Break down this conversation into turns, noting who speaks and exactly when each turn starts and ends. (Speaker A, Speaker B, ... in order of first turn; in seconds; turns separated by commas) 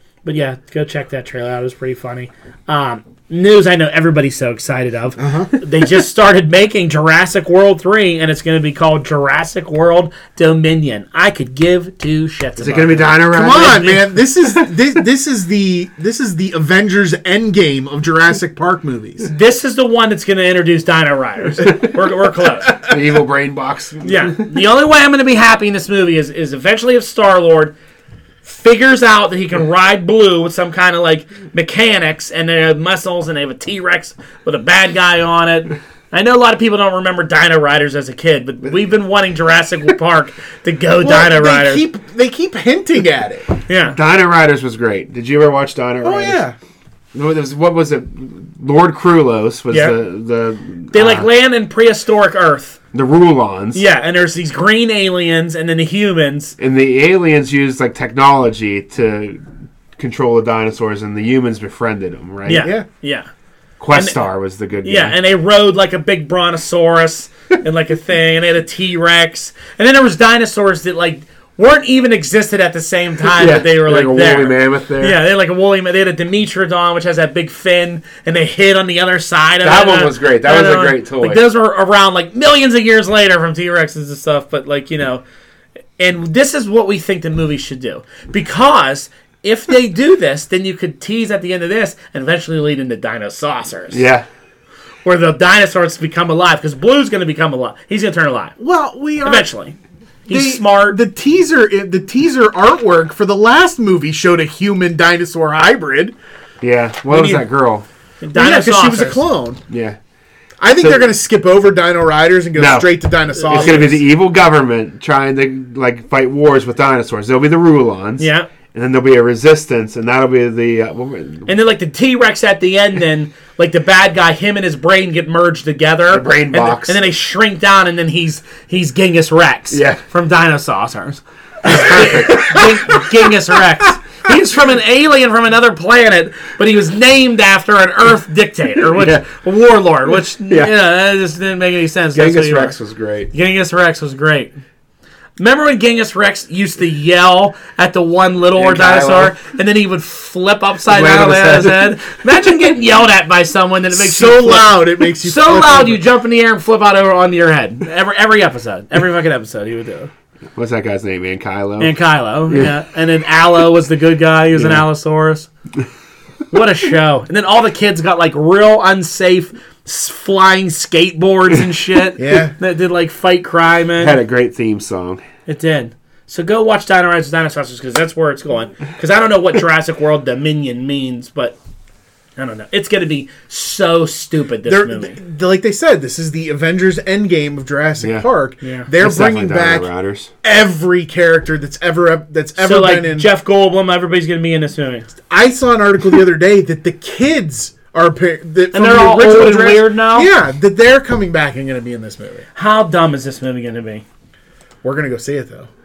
Speaker A: 0.2-13.9, Speaker B: 5.2-5.5, Speaker C: 12.6-14.2, Speaker B: 13.3-19.3, Speaker A: 19.2-22.8, Speaker C: 22.7-24.5, Speaker A: 24.0-27.7, Speaker A: 28.4-41.8, Speaker B: 41.0-43.5, Speaker A: 43.7-44.0, Speaker C: 43.9-46.4, Speaker B: 46.0-46.5, Speaker C: 47.1-51.3, Speaker A: 49.7-50.0, Speaker A: 50.9-52.8, Speaker C: 52.9-53.8, Speaker A: 53.7-56.5, Speaker C: 56.6-62.7, Speaker A: 62.5-63.3, Speaker B: 62.5-62.9, Speaker C: 63.8-65.2, Speaker A: 63.9-64.2, Speaker A: 64.8-85.2, Speaker C: 73.3-75.2, Speaker C: 79.6-81.4, Speaker A: 86.0-94.0, Speaker C: 93.9-94.2, Speaker A: 95.0-98.5, Speaker B: 98.6-99.5, Speaker A: 99.2-99.8, Speaker A: 100.3-101.0, Speaker B: 100.3-106.2, Speaker C: 106.6-107.8, Speaker A: 107.1-107.4, Speaker A: 108.2-109.2, Speaker B: 108.3-109.6, Speaker C: 109.7-110.0, Speaker B: 110.6-114.0, Speaker C: 110.8-111.1, Speaker C: 112.5-112.9, Speaker A: 113.3-113.8, Speaker C: 113.5-121.5, Speaker A: 118.2-118.5, Speaker A: 121.5-142.7, Speaker C: 126.1-127.0, Speaker C: 129.7-130.0, Speaker C: 131.7-133.0, Speaker C: 138.9-139.2, Speaker C: 142.1-143.3, Speaker A: 143.3-144.5, Speaker A: 145.4-160.1, Speaker C: 148.6-149.3, Speaker C: 150.9-152.0, Speaker B: 153.9-156.0, Speaker C: 160.5-161.9, Speaker A: 161.8-165.5, Speaker C: 164.5-164.8, Speaker A: 166.5-174.2, Speaker B: 172.2-172.5, Speaker C: 174.0-175.2, Speaker A: 175.4-181.6, Speaker A: 182.4-185.2, Speaker B: 184.6-189.9, Speaker C: 188.0-188.3, Speaker A: 188.6-188.9, Speaker C: 189.0-190.3, Speaker B: 190.4-193.3, Speaker A: 192.6-195.1, Speaker B: 195.2-202.5, Speaker A: 198.7-200.3, Speaker A: 202.5-204.0, Speaker B: 204.8-205.7